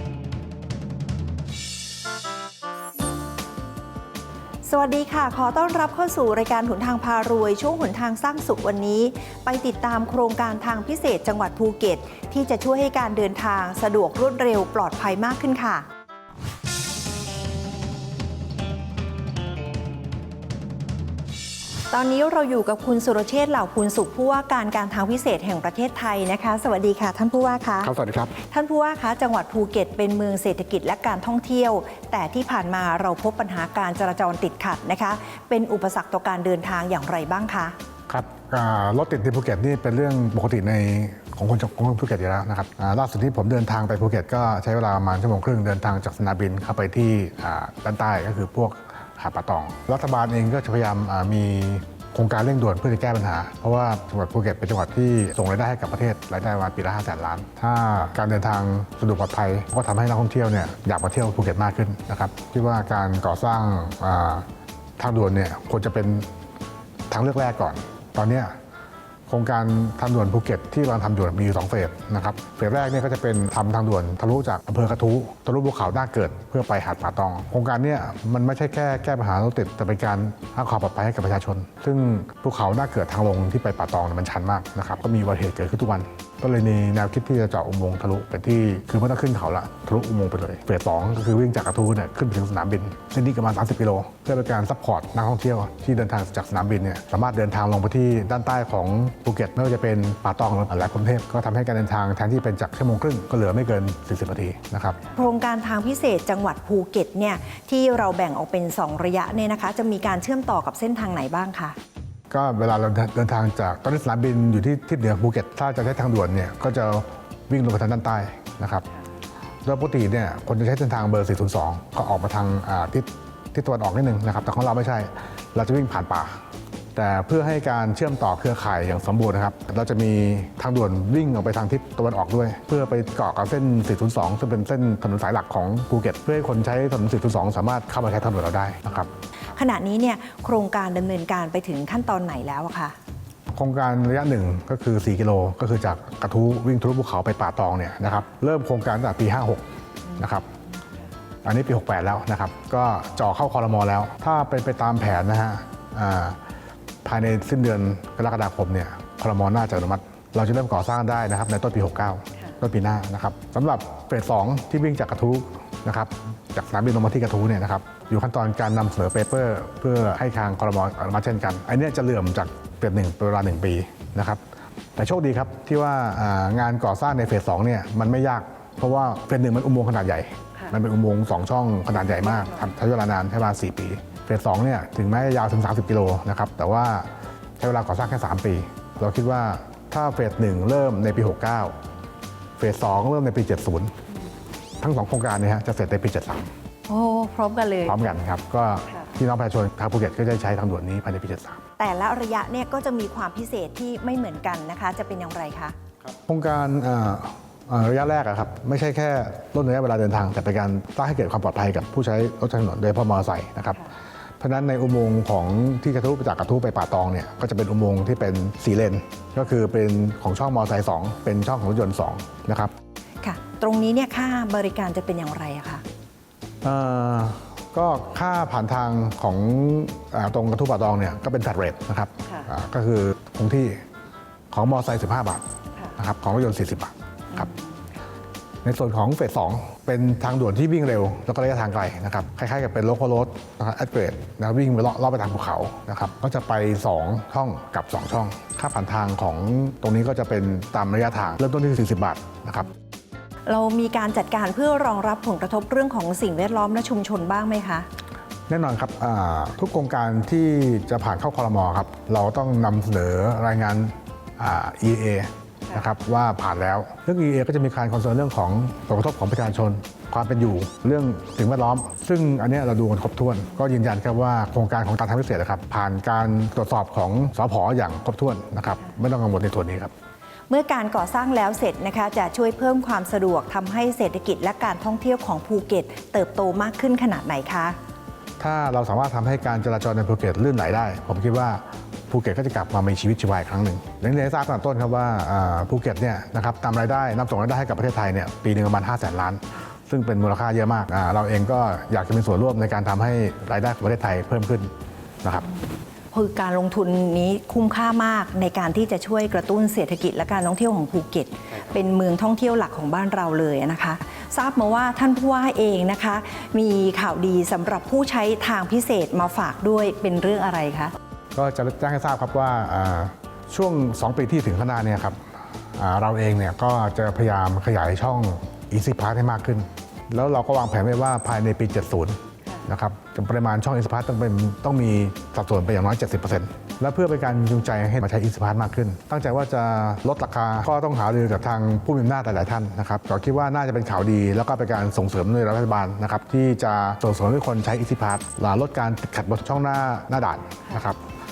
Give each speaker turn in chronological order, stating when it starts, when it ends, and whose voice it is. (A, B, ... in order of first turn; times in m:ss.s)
0:04.6-0:15.9 A
0:21.9-0:37.8 A
0:27.8-0:28.3 B
0:38.1-1:04.4 B
1:05.0-1:06.3 B
1:07.1-1:08.6 B
1:09.3-1:45.1 B
1:45.1-1:51.8 A
1:52.3-1:58.8 B
1:59.6-2:06.4 B
2:06.9-2:19.1 B
2:19.5-2:22.9 A
2:23.5-2:29.6 B
2:30.2-2:30.4 B
2:31.4-2:36.4 B
2:37.0-2:54.4 B
2:55.0-3:11.8 B
3:12.6-3:13.9 B
3:14.8-3:16.5 B
3:16.9-3:18.0 A
3:17.8-3:21.6 B
3:21.8-3:25.8 A
3:26.1-3:33.8 B
3:34.4-3:42.7 B
3:43.2-3:45.8 A
3:46.6-3:53.8 B
3:54.5-3:55.4 B
3:56.0-3:57.5 B
3:57.4-3:57.8 A
3:58.6-4:12.7 B
4:13.5-4:17.9 A
4:18.5-4:39.9 B
4:40.5-4:47.8 A
4:48.4-5:04.7 B
5:06.1-5:20.9 A
5:21.3-5:25.2 B
5:25.7-5:51.0 B